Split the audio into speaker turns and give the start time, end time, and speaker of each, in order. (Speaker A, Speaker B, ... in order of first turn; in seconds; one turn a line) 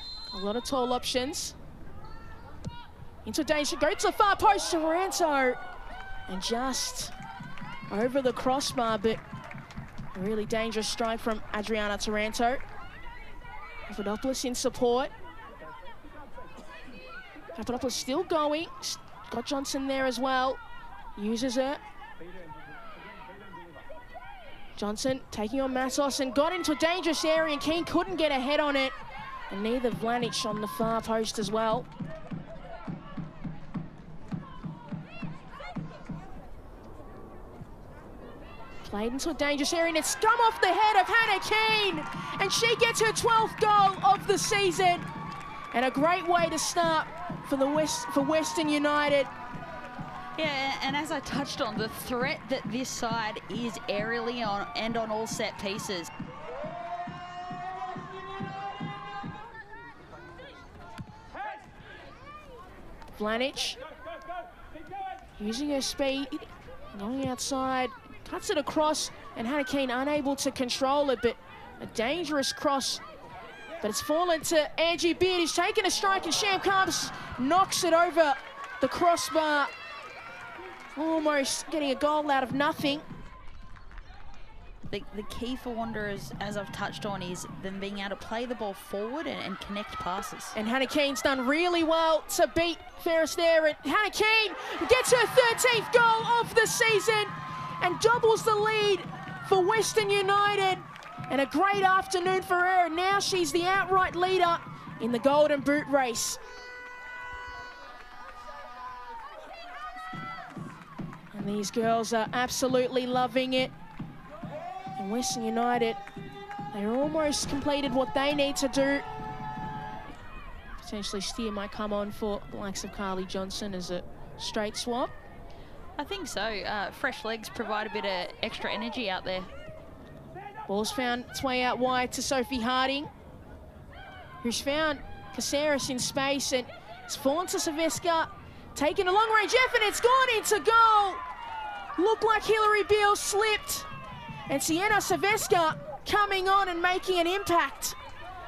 Speaker A: 0.3-1.6
Speaker A: 3.2-5.6
Speaker A: 6.3-7.1
Speaker A: 7.9-9.2
Speaker A: 10.1-12.6
Speaker A: 13.9-15.1
Speaker A: 17.6-20.6
Speaker A: 21.2-21.8
Speaker A: 24.8-29.0
Speaker A: 29.5-31.9
Speaker A: 38.8-45.1
Speaker A: 45.7-49.3
Speaker B: 50.4-56.1
Speaker A: 63.2-63.8
Speaker A: 65.4-73.0
Speaker A: 73.8-79.7
Speaker A: 81.0-83.1
Speaker B: 84.9-90.6
Speaker A: 90.5-106.4
Speaker A: 111.3-113.7
Speaker A: 115.0-116.0
Speaker A: 116.7-119.1
Speaker A: 120.8-125.1
Speaker B: 126.0-129.5
Speaker A: 130.7-133.1
Speaker A: 134.4-141.2
Speaker A: 142.0-143.9
Speaker A: 144.5-148.0